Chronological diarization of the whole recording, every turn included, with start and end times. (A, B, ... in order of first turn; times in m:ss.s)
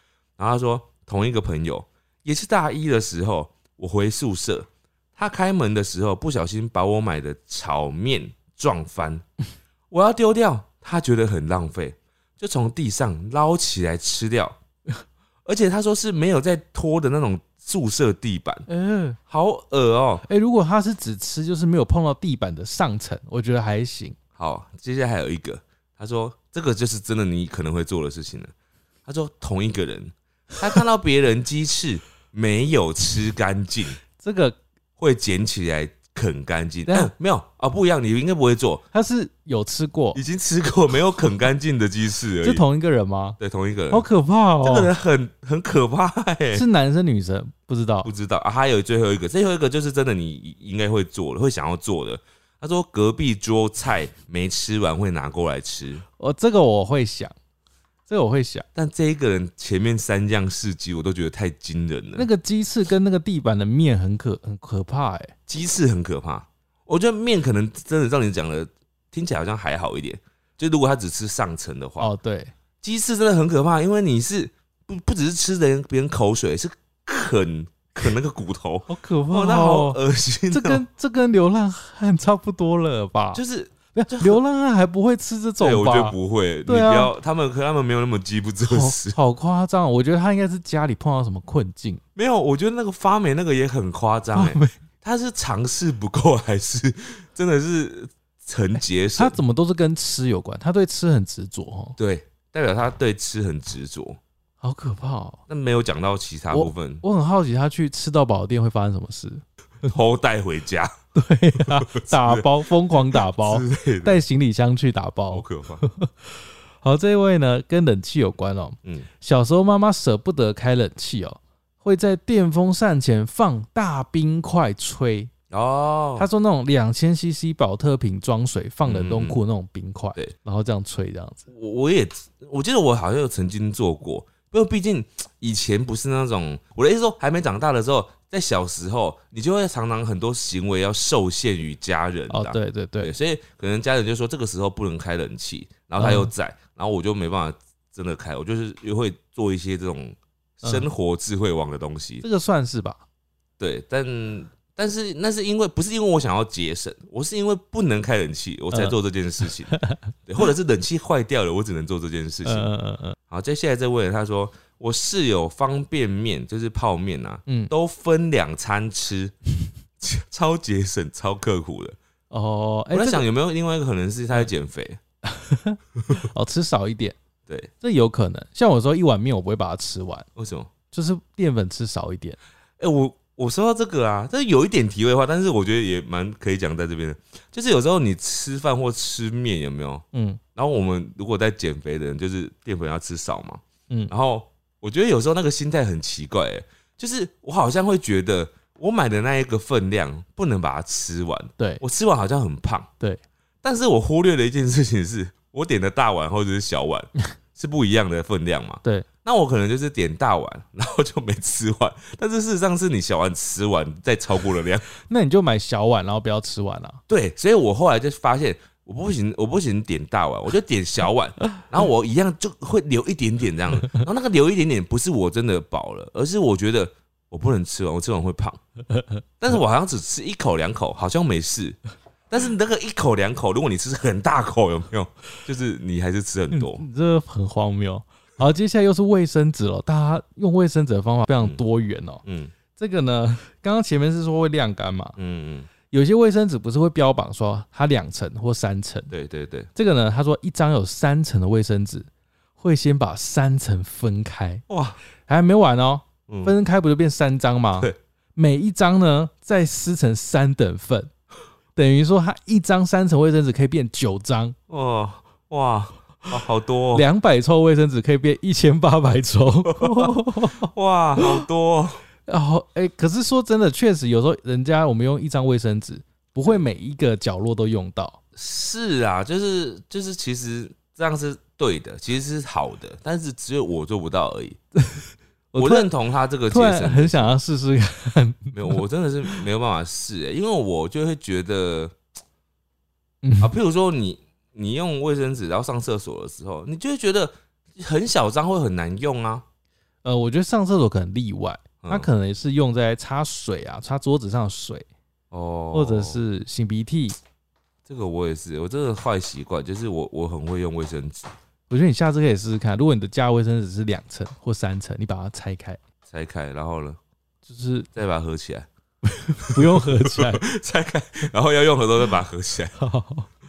0:00.4-0:09.2 A
0:09.9-0:14.6 A
0:15.4-0:18.6 A
0:18.7-0:19.2 B
0:19.3-0:20.2 A
0:20.2-0:24.2 B
0:24.4-0:28.5 A
0:29.0-0:34.0 A
0:34.2-0:34.6 B
0:35.0-0:38.8 A
0:38.9-0:40.2 B
0:40.1-0:42.6 A
0:42.4-0:43.4 B
0:43.4-0:44.0 A
0:43.9-0:44.9 B
0:44.6-0:46.6 A
0:46.5-0:48.1 B
0:48.0-0:56.0 A
0:56.2-0:57.3 B
0:58.1-0:58.6 B
0:58.7-1:02.3 A
1:02.1-1:05.3 B
1:05.5-1:12.1 A
1:12.0-1:12.5 B
1:12.8-1:20.8 A
1:18.9-1:20.0 B
1:20.5-1:23.4 B
1:23.3-1:24.4 A
1:23.9-1:26.2 B
1:25.6-1:29.2 A
1:26.7-1:27.1 B
1:28.6-1:32.0 B
1:32.2-1:39.4 A
1:34.3-1:34.7 B
1:39.2-1:42.0 B
1:42.0-1:44.2 A
1:44.6-1:45.4 B
1:45.5-1:47.0 A
1:46.5-1:49.4 B
1:49.8-1:50.9 A
1:51.1-2:05.3 B
1:51.6-1:54.2 A
1:55.3-1:55.8 A
2:05.5-2:06.3 A
2:06.2-2:11.5 B
2:08.8-2:09.4 A
2:11.5-2:32.2 A
2:22.3-2:23.1 B
2:26.0-2:26.3 B
2:30.6-2:30.9 B
2:32.2-2:33.0 B
2:33.6-2:39.7 A
2:39.7-2:40.0 B
2:40.2-2:42.7 A
2:42.4-2:43.2 B
2:43.3-2:49.3 A
2:47.5-2:47.7 B
2:50.0-2:52.0 A
2:52.3-2:53.2 B
2:52.9-2:55.0 A
2:55.2-2:57.2 B
2:57.8-3:00.3 B
3:00.4-3:00.7 A
3:00.9-3:02.4 B
3:02.8-3:10.0 A
3:10.1-3:10.4 B
3:10.6-3:22.9 A
3:23.6-3:34.9 A
3:35.0-3:37.0 B
3:37.1-3:48.6 A
3:48.9-3:49.2 B
3:49.4-3:51.8 A
3:52.3-3:56.8 A
3:56.5-4:02.2 B
4:02.2-4:02.5 A
4:02.7-4:05.2 B
4:05.2-4:05.7 A
4:05.9-4:09.1 B
4:09.1-4:09.7 A
4:09.7-4:12.1 B
4:12.6-4:14.6 B
4:14.7-4:15.0 A
4:15.2-4:21.1 B
4:16.3-4:16.5 A
4:21.8-4:24.6 B
4:24.7-4:27.0 A
4:26.9-4:31.4 B
4:29.6-4:32.0 A
4:32.3-4:38.2 B
4:38.4-4:44.6 A
4:44.8-4:45.9 B
4:45.6-4:47.3 A
4:46.5-4:48.8 B
4:48.5-4:51.9 A
4:53.2-4:53.5 B
4:53.4-4:59.4 A
5:00.0-5:04.8 B
5:01.8-5:02.1 A
5:05.3-5:06.2 A
5:05.7-5:07.2 B
5:07.8-5:11.3 A
5:11.7-5:15.8 B
5:16.1-5:17.0 A
5:17.4-5:17.9 B
5:17.9-5:18.7 A
5:19.1-5:20.4 B
5:19.5-5:22.8 A
5:22.8-5:23.3 B